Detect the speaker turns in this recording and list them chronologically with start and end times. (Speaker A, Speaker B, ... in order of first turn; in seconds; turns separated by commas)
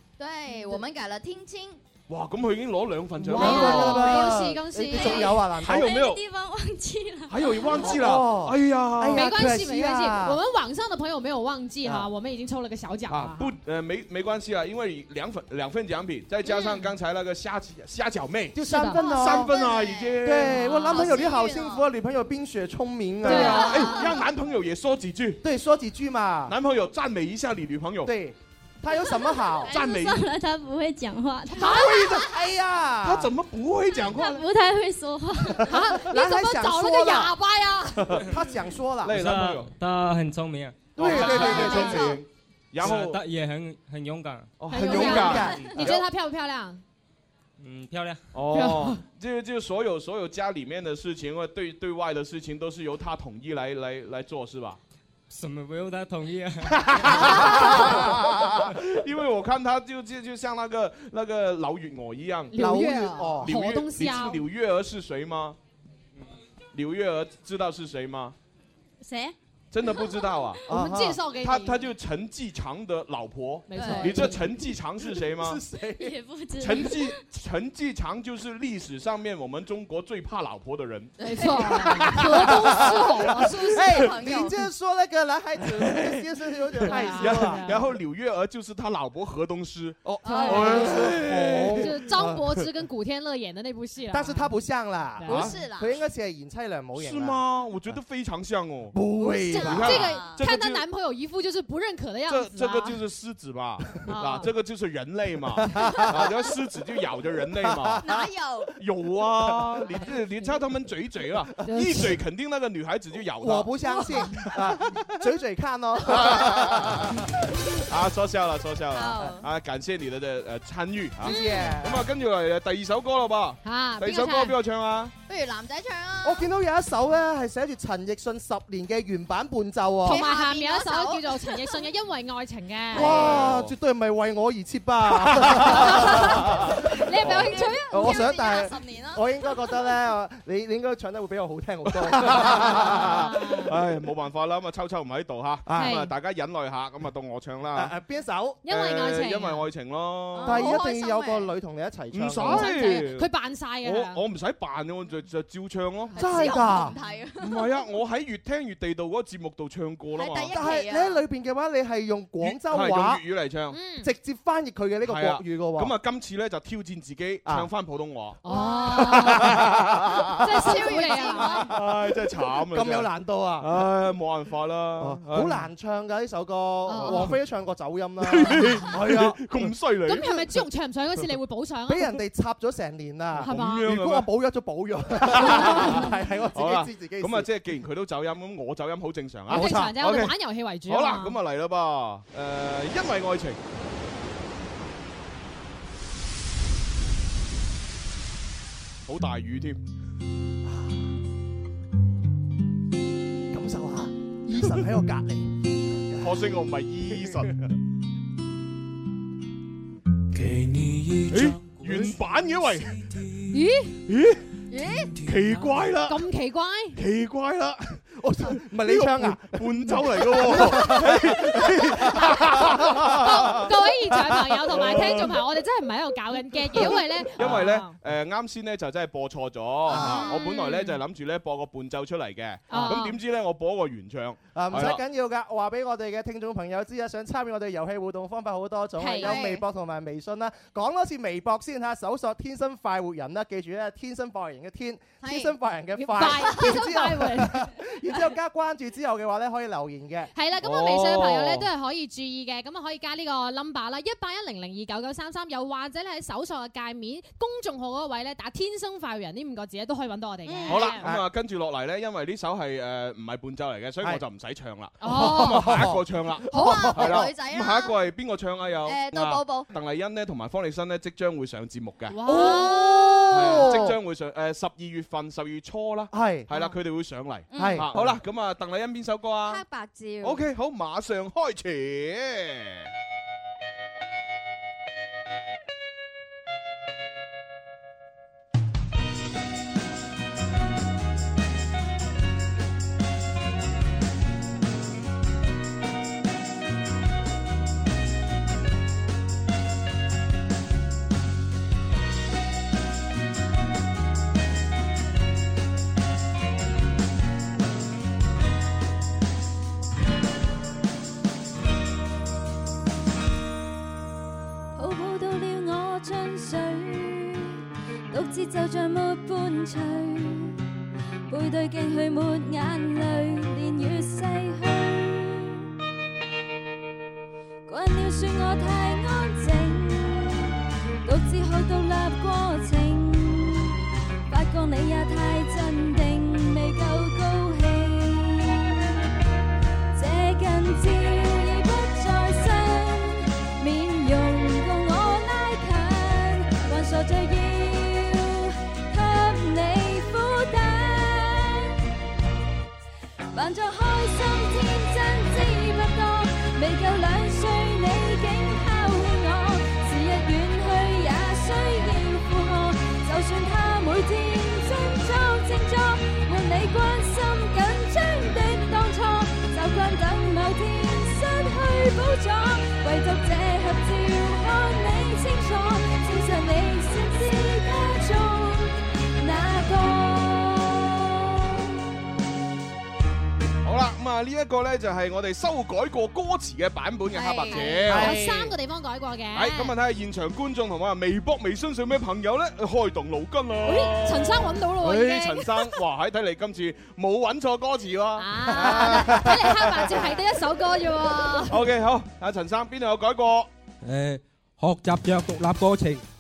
Speaker A: 0.2-1.8, Speaker B: 2.1-4.3, Speaker C: 3.2-5.9, Speaker D: 3.3-5.4, Speaker E: 5.0-7.8, Speaker B: 5.1-6.2, Speaker B: 7.3-9.3, Speaker C: 7.7-10.4, Speaker D: 9.1-13.5, Speaker C: 11.8-12.1, Speaker B: 13.1-21.3, Speaker C: 18.6-19.5, Speaker D: 18.7-19.1, Speaker A: 19.4-21.9, Speaker C: 20.2-24.0, Speaker D: 20.5-20.9, Speaker B: 23.2-25.4, Speaker D: 23.2-23.9, Speaker C: 25.4-26.6, Speaker B: 26.5-28.1, Speaker C: 28.1-29.8, Speaker E: 28.9-32.0, Speaker B: 29.7-30.3, Speaker D: 31.5-32.2, Speaker C: 31.5-33.3, Speaker B: 33.0-34.5, Speaker E: 34.1-35.6, Speaker C: 35.5-37.3, Speaker D: 35.6-38.2, Speaker C: 38.1-39.2, Speaker B: 39.0-39.7, Speaker F: 39.1-41.6, Speaker C: 41.0-42.2, Speaker B: 41.0-43.2, Speaker D: 41.4-41.9, Speaker A: 41.5-42.2, Speaker F: 42.8-44.5, Speaker B: 44.6-46.0, Speaker D: 44.7-46.8, Speaker C: 44.7-45.7, Speaker F: 47.6-48.3, Speaker B: 48.3-54.8, Speaker D: 48.5-49.0, Speaker F: 55.3-57.4, Speaker B: 56.8-62.8, Speaker D: 57.0-57.9, Speaker D: 62.5-64.4, Speaker C: 62.5-63.5, Speaker B: 63.4-65.6, Speaker B: 66.7-68.4, Speaker E: 69.0-70.4, Speaker B: 69.7-70.6, Speaker C: 70.7-71.2, Speaker D: 70.7-71.9, Speaker B: 71.4-75.6, Speaker D: 73.7-74.4, Speaker A: 73.8-74.1, Speaker C: 75.2-76.2, Speaker E: 76.0-77.2, Speaker B: 76.6-84.0, Speaker A: 81.2-82.1, Speaker D: 81.2-84.1, Speaker C: 82.1-87.7, Speaker A: 83.5-84.5, Speaker B: 85.8-86.2, Speaker D: 86.8-87.8, Speaker B: 86.9-91.9, Speaker C: 90.0-92.4, Speaker D: 90.2-91.2, Speaker D: 91.8-94.5, Speaker C: 94.1-97.4, Speaker D: 95.2-95.5, Speaker B: 95.3-95.6, Speaker A: 95.3-96.0, Speaker B: 97.0-100.8, Speaker C: 98.9-100.0, Speaker A: 99.4-100.4, Speaker D: 99.5-103.0, Speaker B: 102.3-113.8, Speaker D: 104.0-104.5, Speaker C: 105.6-106.3, Speaker C: 107.6-108.2, Speaker A: 108.0-108.7, Speaker D: 110.0-110.5, Speaker C: 111.7-112.1, Speaker D: 111.7-112.1, Speaker C: 113.4-117.2, Speaker D: 113.9-114.4, Speaker B: 116.1-125.1, Speaker A: 118.9-119.5, Speaker C: 121.2-122.1, Speaker D: 121.3-121.8, Speaker D: 123.6-124.5, Speaker A: 125.3-126.5, Speaker C: 126.2-130.2, Speaker A: 130.0-131.5, Speaker D: 130.0-133.2, Speaker C: 132.9-143.2, Speaker B: 132.9-133.7, Speaker B: 135.2-137.5, Speaker D: 135.7-138.3, Speaker A: 137.3-139.3, Speaker B: 142.1-147.9, Speaker D: 142.4-143.8, Speaker C: 145.7-146.0, Speaker D: 145.8-146.1, Speaker C: 147.7-148.6, Speaker D: 148.6-149.7, Speaker B: 148.7-150.8, Speaker A: 150.3-151.5, Speaker C: 150.4-152.7, Speaker B: 152.1-153.3, Speaker D: 152.5-154.2, Speaker B: 153.8-156.8, Speaker C: 156.2-157.0, Speaker A: 156.2-157.7, Speaker B: 157.4-160.7, Speaker A: 160.1-161.2, Speaker C: 160.5-163.2, Speaker B: 162.4-163.8, Speaker D: 163.7-164.1, Speaker C: 164.0-165.9, Speaker B: 165.1-175.7, Speaker C: 167.4-167.7, Speaker D: 168.4-169.6, Speaker A: 168.5-168.9, Speaker C: 169.2-169.8, Speaker D: 170.4-171.7, Speaker A: 170.6-171.7, Speaker C: 170.8-172.0, Speaker C: 172.7-173.8, Speaker C: 175.0-179.7, Speaker D: 176.8-177.4, Speaker B: 176.9-177.4, Speaker B: 178.2-180.6, Speaker D: 180.1-182.2, Speaker C: 181.9-187.5, Speaker B: 183.4-184.3, Speaker D: 183.4-183.9, Speaker B: 185.2-193.6, Speaker D: 185.4-186.1, Speaker C: 189.5-190.0, Speaker D: 189.5-191.4, Speaker B: 199.1-199.8, Speaker C: 200.7-201.0, Speaker C: 203.5-205.6, Speaker C: 206.1-206.3, Speaker B: 206.2-207.6, Speaker C: 207.1-207.5, Speaker G: 210.3-212.2, Speaker B: 211.3-213.0, Speaker G: 212.9-213.2, Speaker D: 213.5-214.0, Speaker B: 214.1-214.4, Speaker A: 214.7-215.1, Speaker B: 215.2-216.2, Speaker D: 216.1-217.0, Speaker B: 216.9-223.7, Speaker C: 218.2-225.2, Speaker D: 222.0-228.0, Speaker B: 224.7-225.4, Speaker C: 226.7-227.7, Speaker B: 226.7-235.0, Speaker C: 229.9-230.4, Speaker D: 229.9-231.0, Speaker D: 232.7-233.2, Speaker C: 232.7-233.0, Speaker C: 234.6-250.3, Speaker D: 239.0-239.4, Speaker A: 239.2-239.6, Speaker A: 245.2-245.5, Speaker D: 246.0-247.7, Speaker D: 250.3-261.1, Speaker B: 250.6-251.7, Speaker A: 260.5-260.9, Speaker B: 260.7-272.6, Speaker C: 261.0-261.3, Speaker D: 265.0-265.8, Speaker C: 265.1-267.2, Speaker D: 266.5-267.0, Speaker A: 266.6-268.0, Speaker A: 268.8-269.7, Speaker D: 272.1-273.7, Speaker C: 272.2-274.0, Speaker B: 273.3-279.6, Speaker C: 276.1-276.5, Speaker A: 277.5-277.8, Speaker C: 277.6-278.1, Speaker A: 279.4-280.4, Speaker B: 280.2-282.9, Speaker H: 314.7-317.6, Speaker H: 318.1-320.6, Speaker H: 321.3-325.6, Speaker H: 327.7-333.8, Speaker H: 334.3-338.8, Speaker H: 339.9-351.8, Speaker H: 353.3-381.6, Speaker B: 383.6-388.2, Speaker A: 387.1-387.8, Speaker D: 387.5-389.7, Speaker C: 387.9-388.6, Speaker B: 389.3-400.2, Speaker D: 393.6-395.8, Speaker D: 398.2-401.6, Speaker C: 398.5-400.1, Speaker B: 401.4-403.5, Speaker I: 403.8-406.0